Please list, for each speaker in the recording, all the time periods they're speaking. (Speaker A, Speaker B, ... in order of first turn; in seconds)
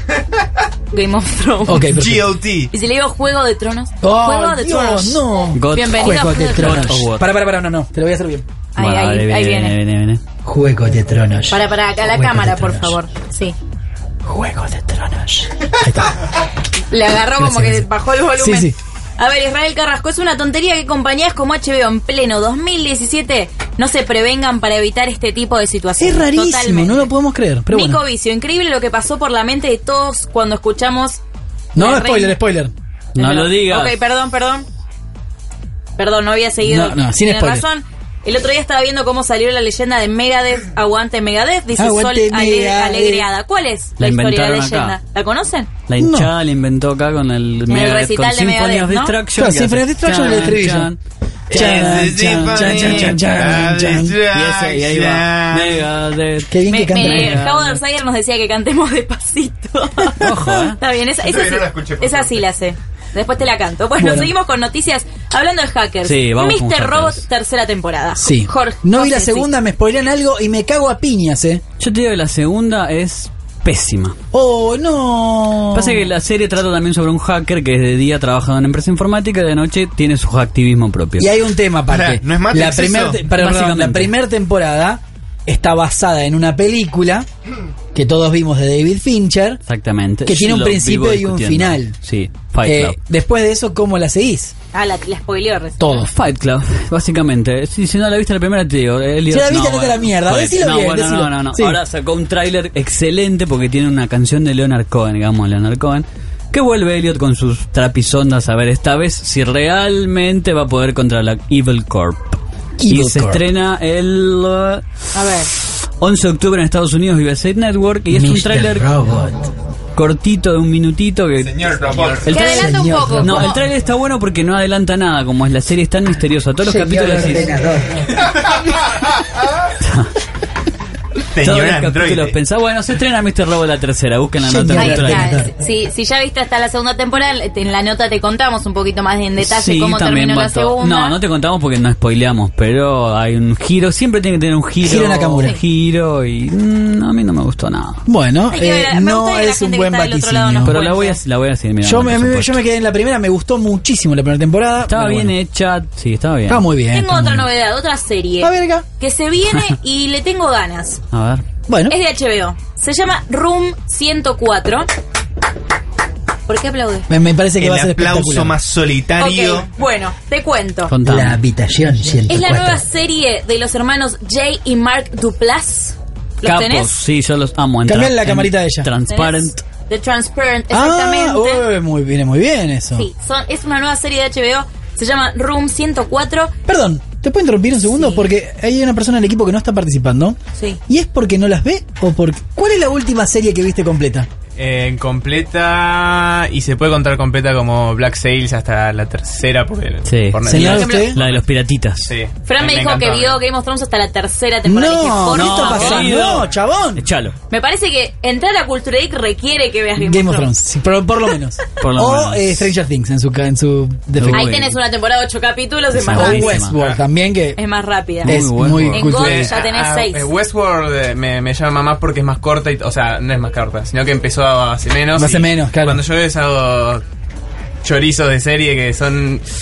Speaker A: 0.9-1.9, 2.7-7.0, 8.8-9.8, 11.5-13.6, 16.9-27.1, 27.7-31.2, 31.8-32.4, 33.2-34.7, 36.0-45.7, 47.7-49.1, 56.7-69.5, 94.7-96.0, 115.1-115.5, 122.3-123.6, 134.8-141.2, 148.5-151.2, 156.9-161.0, 161.9-164.9, 166.5-167.1, 169.2-170.9, 172.3-176.9, 179.1-181.7, 182.9-186.5, 187.9-188.3, 200.5-201.1, 202.5-206.3, 207.5-210.5, 214.3-216.6, 217.6-218.3, 218.9-220.3
Speaker B: 1.7-2.4, 4.0-8.4, 10.4-13.0, 14.2-16.2, 17.3-18.8, 26.0-28.0, 31.8-32.7, 36.6-37.7, 41.8-43.3, 46.0-46.3, 49.4-50.9, 51.5-54.2, 56.5-57.4, 64.0-64.3, 68.2-71.6, 74.3-76.0, 81.2-87.3, 87.9-89.6, 90.2-92.0, 92.6-94.5, 95.8-96.1, 99.3-101.8, 112.8-113.5, 118.1-119.5, 122.3-123.6, 126.6-128.3, 134.4-135.5, 144.8-145.6, 148.1-150.8, 151.8-155.3, 156.5-157.5, 158.4-158.9, 161.7-162.0, 167.1-168.6, 171.1-172.8, 177.9-178.9, 180.7-183.1, 186.7-194.3, 200.5-201.2, 204.7-207.1, 210.0-214.7, 216.1-217.6, 218.2-219.5, 225.2-226.0
Speaker C: 1.9-2.7, 51.5-55.9, 61.2-62.4, 81.9-83.2, 121.4-122.3, 131.3-132.4, 167.6-169.7
Speaker D: 5.5-7.3, 8.8-10.2, 33.1-34.0, 44.0-45.0, 45.9-51.0, 51.5-53.6, 54.3-57.8, 60.2-60.8, 66.0-67.2, 71.8-74.2, 75.7-81.3, 83.3-84.1, 89.7-93.0, 96.1-114.8, 115.5-118.9, 120.0-127.5, 129.8-130.1, 131.4-135.3, 139.4-148.0, 150.7-152.6, 154.9-156.7, 161.1-161.4, 170.9-171.4, 176.4-179.6, 200.1-202.1, 205.3-207.3, 211.8-212.7, 214.2-214.8, 215.9-216.8, 218.2-219.1
Speaker E: 194.6-201.4, 202.1-203.4, 219.2-227.0, 227.8-229.4